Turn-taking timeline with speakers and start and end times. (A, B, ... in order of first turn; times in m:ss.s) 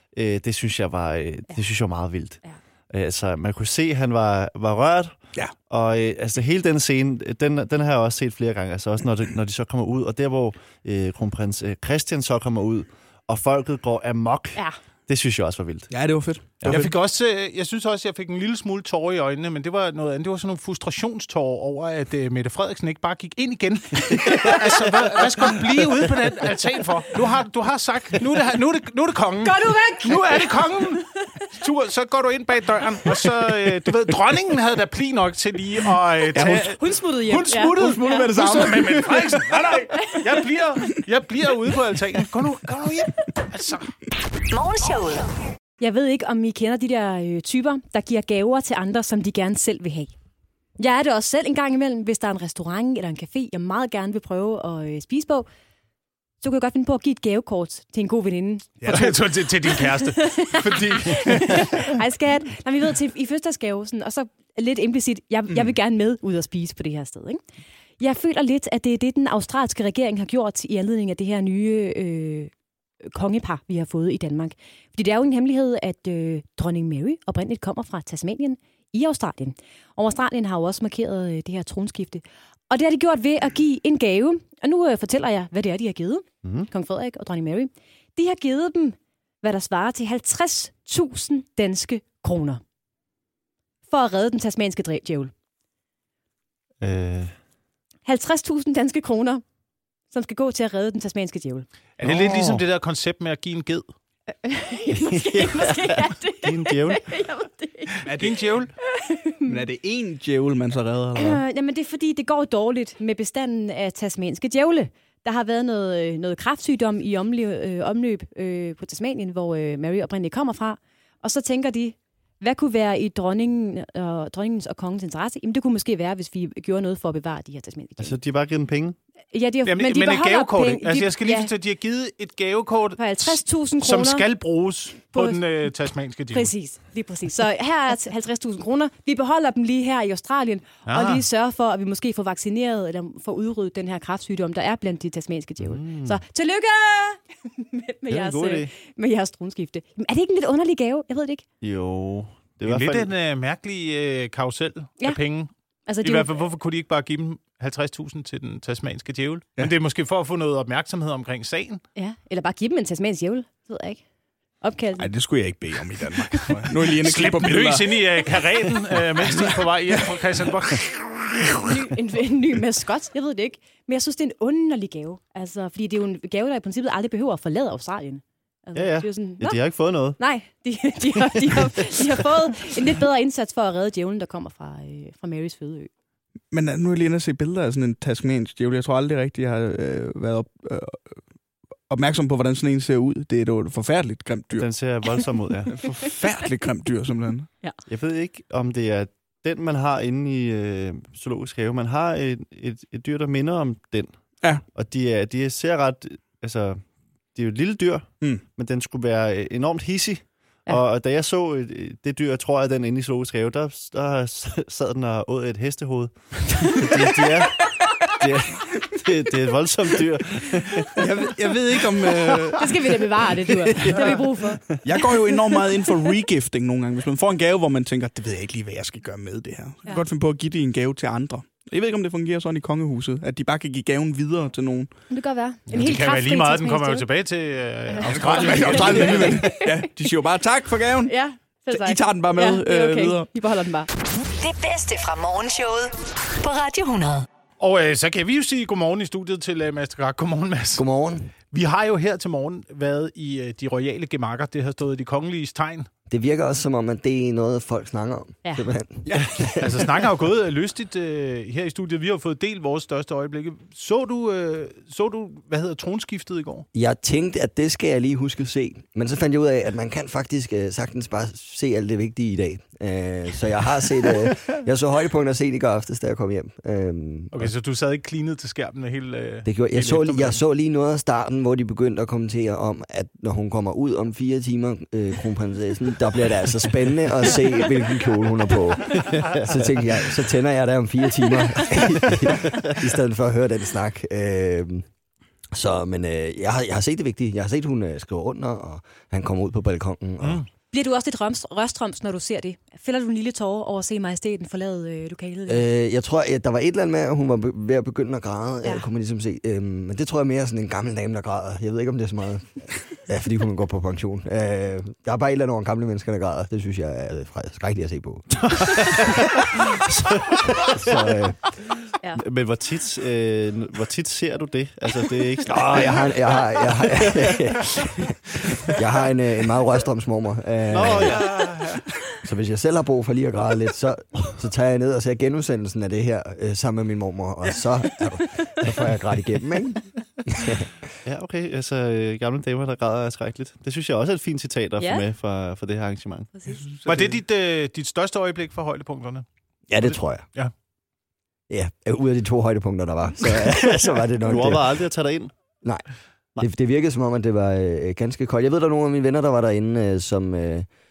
0:00.2-0:15.9 A
0:15.9-0:17.0 B
0:16.6-0:43.9 C
0:29.4-0:30.5 D
0:36.3-0:36.8 B
0:36.8-0:38.4 D
0:37.7-0:39.7 B
0:44.5-0:45.3 E
0:45.8-0:50.1 D
0:50.8-0:55.5 D
0:56.4-0:59.1 D
0:58.8-0:59.2 B
0:58.9-1:00.4 C
1:00.0-1:07.4 D
1:00.6-1:01.9 B
1:08.0-1:12.5 D
1:13.1-1:32.6 D
1:26.4-1:26.7 A
1:33.9-1:35.3 D
1:36.8-1:37.3 A
1:38.1-1:39.4 D
1:40.1-1:41.7 D
1:42.0-1:43.9 C
1:42.0-1:42.6 A
1:44.3-1:48.0 D
1:44.9-1:47.0 A
1:48.0-1:48.4 B
1:48.1-1:48.7 C
1:49.0-1:49.6 D
1:49.4-1:51.4 B
1:51.2-2:08.2 D
2:08.0-2:09.0 A
2:09.3-2:11.5 D
2:09.7-2:16.5 C
2:13.0-2:14.3 D
2:15.1-2:15.4 D
2:16.3-2:31.4 D
2:20.9-2:21.2 C
2:25.6-2:26.2 A
2:28.1-2:28.7 A
2:31.6-2:33.1 A
2:32.6-2:35.5 C
2:35.9-2:36.4 D
2:36.0-2:41.8 C
2:42.0-2:44.0 D
2:44.6-2:45.1 D
2:45.0-2:48.0 B
2:46.3-2:46.6 D
2:47.0-2:51.0 C
2:49.2-2:50.1 B
2:50.7-2:51.7 B
2:51.6-2:59.6 D
2:58.8-3:00.2 A
3:00.2-3:05.9 D
3:01.2-3:02.2 A
3:06.5-3:11.2 B
3:11.9-3:14.7 B
3:14.5-3:15.8 A
3:15.7-3:17.5 B
3:17.9-3:24.1 A
3:24.8-3:26.8 A
3:27.3-3:41.3 A
3:41.0-3:43.1 B
3:42.5-3:46.0 D
3:43.7-3:44.2 B
3:43.8-3:44.1 A
3:44.8-3:54.9 B
3:55.1-3:57.1 D
3:55.7-3:59.5 C
3:57.9-3:59.9 D
3:58.1-4:01.1 B
4:01.0-4:03.9 D
4:01.7-4:03.3 B
4:04.4-4:07.3 E
4:07.6-4:10.8 C
4:10.8-4:11.3 F
4:11.5-4:15.9 C
4:16.1-4:19.8 F
4:19.6-4:26.7 C
4:26.7-4:37.5 F
4:37.3-4:40.4 C
4:39.4-4:54.9 F
4:48.9-4:49.6 A
4:52.1-4:52.7 A
4:55.5-5:00.4 F
5:00.7-5:05.7 D
5:05.5-5:19.8 F
5:18.4-5:21.0 A
5:20.3-5:21.4 F
5:22.2-5:27.4 A
5:25.4-5:31.3 F
5:30.7-5:31.6 A
5:31.3-5:31.8 C
5:32.2-5:40.7 F
5:41.0-5:46.3 A
5:44.8-5:45.0 D
5:46.4-5:46.7 D
5:46.7-5:47.1 B
5:46.8-5:49.3 C
5:49.7-5:50.3 F
5:49.8-5:50.5 C
5:51.5-5:54.8 F
5:54.2-5:55.3 A
5:56.4-6:00.7 F